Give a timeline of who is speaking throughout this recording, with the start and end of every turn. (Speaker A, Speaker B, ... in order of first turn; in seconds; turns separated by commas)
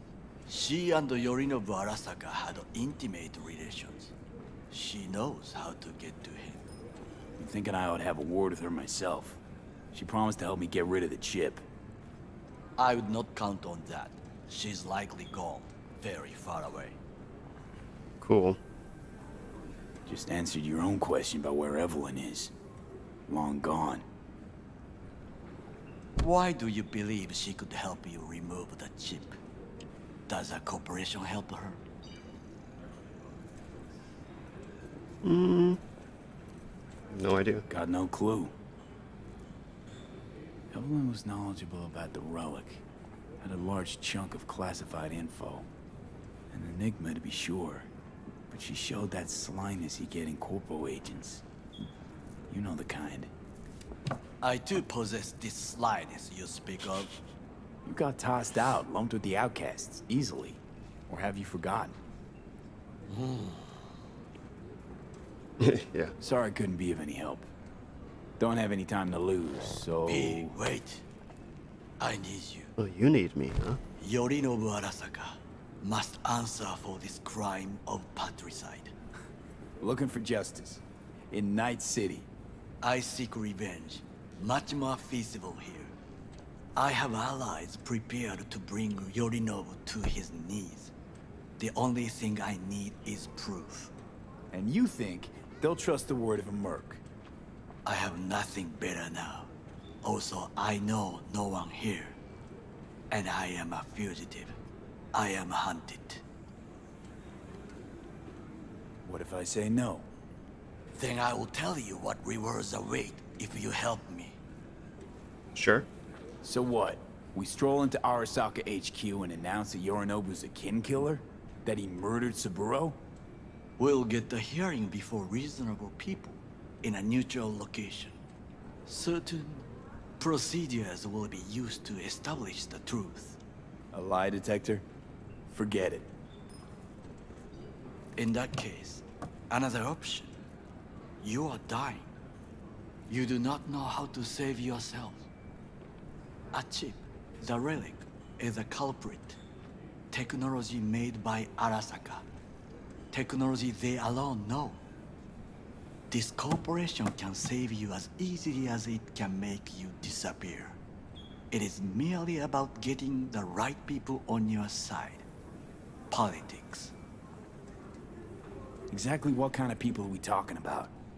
Speaker A: 0.5-4.1, Speaker A: 4.7-6.6, Speaker B: 7.4-9.4, Speaker B: 9.9-11.6, Speaker A: 12.8-17.0, Speaker C: 18.2-18.6, Speaker B: 20.1-22.5, Speaker B: 23.3-24.1, Speaker A: 26.2-29.4, Speaker A: 30.3-31.8, Speaker C: 35.2-35.8, Speaker C: 37.1-37.6, Speaker B: 37.7-38.5, Speaker B: 40.7-42.8, Speaker B: 43.4-45.7, Speaker B: 46.5-47.9, Speaker B: 48.5-51.4, Speaker B: 52.5-53.3, Speaker A: 54.4-57.1, Speaker B: 57.9-62.0, Speaker A: 63.1-63.6, Speaker C: 65.6-66.1, Speaker B: 66.2-67.5, Speaker B: 68.4-70.5, Speaker A: 70.1-71.0, Speaker A: 72.0-72.7, Speaker C: 72.8-73.8, Speaker A: 74.0-78.9, Speaker B: 79.8-82.3, Speaker A: 82.8-85.9, Speaker A: 86.8-90.9, Speaker A: 91.6-93.9, Speaker B: 94.5-97.0, Speaker A: 97.8-99.5, Speaker A: 100.0-102.2, Speaker A: 103.1-104.6, Speaker A: 105.1-106.2, Speaker B: 109.0-110.1, Speaker A: 110.9-114.4, Speaker C: 115.5-115.9, Speaker B: 116.4-123.0, Speaker A: 123.8-128.2, Speaker A: 128.9-129.7, Speaker A: 130.2-133.4, Speaker B: 133.9-134.8, Speaker B: 135.5-136.1, Speaker A: 138.2-140.3, Speaker A: 141.2-142.1, Speaker A: 143.1-145.3, Speaker A: 146.5-149.4, Speaker A: 150.1-152.2, Speaker A: 153.1-154.8, Speaker A: 156.1-160.8, Speaker A: 161.5-165.2, Speaker A: 166.1-166.9, Speaker B: 168.9-170.9